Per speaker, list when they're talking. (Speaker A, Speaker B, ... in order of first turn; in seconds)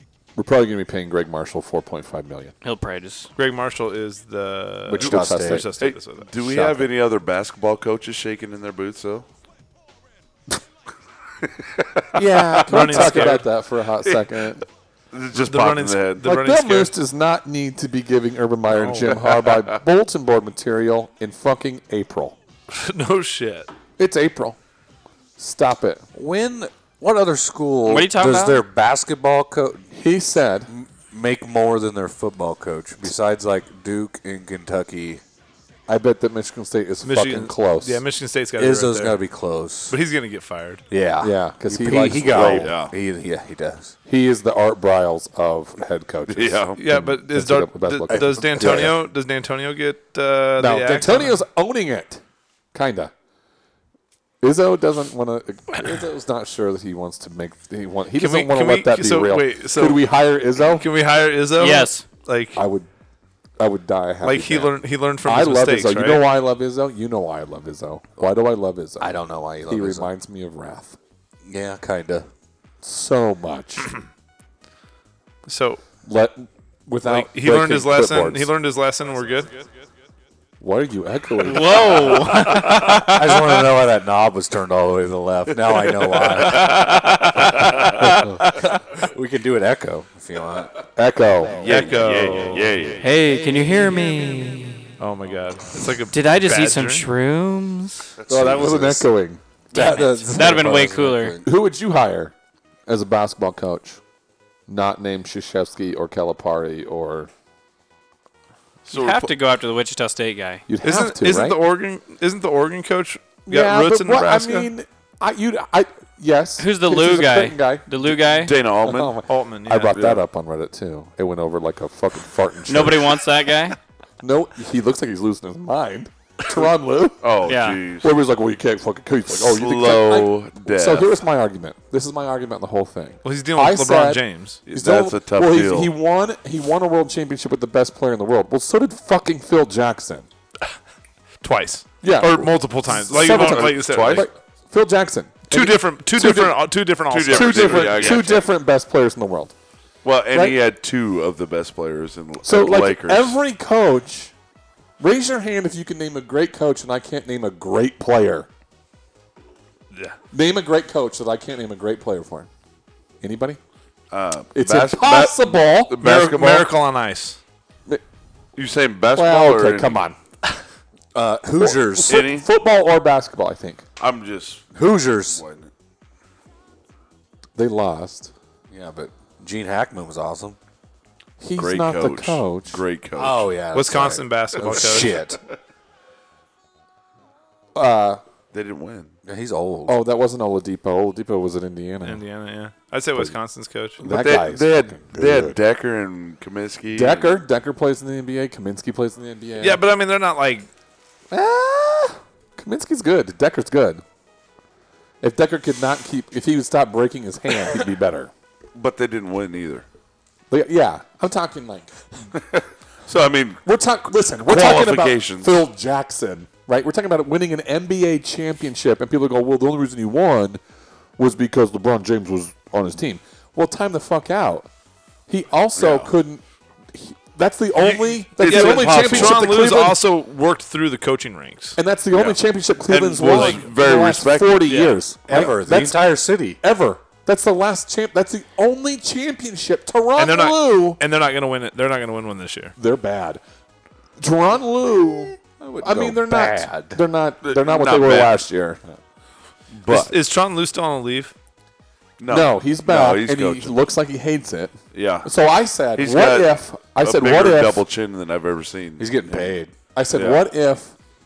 Speaker A: 0.4-2.5, 5.0-5.7, 12.2-14.7, 16.2-22.4, 24.0-24.6, 25.4-26.0, 29.9-30.7, 35.9-38.0, 41.2-42.7, 44.1-49.0, 50.6-52.2, 52.7-53.1, 54.4-60.9, 62.6-62.9, 63.6-71.0, 72.8-73.9, 76.0-78.5, 80.6-82.3, 91.0-91.7, 98.3-102.3, 102.9-104.0, 104.7-107.3, 110.7-111.6, 113.5-118.1, 118.8-123.2, 124.2-127.4, 128.0-140.3, 142.0-146.6, 147.3-149.5, 150.3-150.6, 152.4-154.3, 155.0-158.5, 160.3-162.5, 163.2-163.6, 164.6-166.0, 169.2-170.2, 171.6-173.8, 177.6-178.3, 181.4-182.8, 187.8-188.2, 189.9-192.2, 194.0-195.6, 196.9-199.8, 201.3-204.0, 205.2-208.3, 210.5-211.9, 213.6-220.6, 221.2-224.7, 225.3-230.0, 231.8-236.1, 236.6-241.0, 242.8-243.4, 244.2-248.8, 252.3-257.8, 259.9-260.9
Speaker B: 2.6-3.3, 12.2-12.6, 27.9-28.6, 61.6-62.0, 81.4-83.4, 86.6-88.2, 93.0-94.8, 96.1-98.1, 99.7-101.4, 108.9-110.6, 116.6-118.6, 122.7-123.8, 127.5-127.8
Speaker C: 3.4-6.8, 12.7-13.4, 15.4-16.9, 18.7-19.4, 22.7-23.7, 37.0-39.2, 39.9-40.8, 46.8-51.4, 58.2-60.1, 60.6-62.6, 64.2-66.2, 75.5-75.8, 77.0-79.5, 91.6-92.7, 95.0-97.1, 110.8-114.7, 119.3-120.2, 133.2-134.6, 141.4-144.3, 145.5-148.4, 166.0-167.4, 183.7-185.2, 192.0-194.0, 199.6-200.7, 228.4-231.8, 233.2-233.7, 234.7-235.0, 240.2-242.7, 249.9-251.3
Speaker D: 4.9-5.7, 26.1-29.9, 30.7-35.2, 38.6-40.0, 40.9-44.0, 48.1-49.0, 69.0-70.1, 71.5-72.3, 83.0-90.8, 98.3-99.1, 99.7-101.5, 171.2-172.2, 174.7-175.4, 178.7-180.6, 183.2-185.4, 189.2-190.0, 235.3-236.6, 245.6-247.0, 259.0-259.7
Speaker E: 5.8-9.3, 11.6-12.0, 15.1-16.2, 42.3-42.9, 46.3-46.8, 91.6-93.1, 98.2-98.9, 108.9-109.3, 118.4-119.2, 127.2-128.1, 129.3-131.1, 134.7-135.9, 143.1-144.3, 147.1-148.4, 150.0-153.4, 164.1-166.7, 168.6-170.0, 172.0-172.5, 174.0-174.6, 175.3-175.7, 181.6-183.6, 188.5-189.1, 194.0-197.3, 208.8-209.8, 212.5-213.6, 214.5-215.6, 225.8-226.1, 228.4-229.5, 232.9-234.7, 247.4-248.4, 249.7-250.2, 252.2-253.7, 254.9-255.3, 256.0-259.5, 260.1-260.4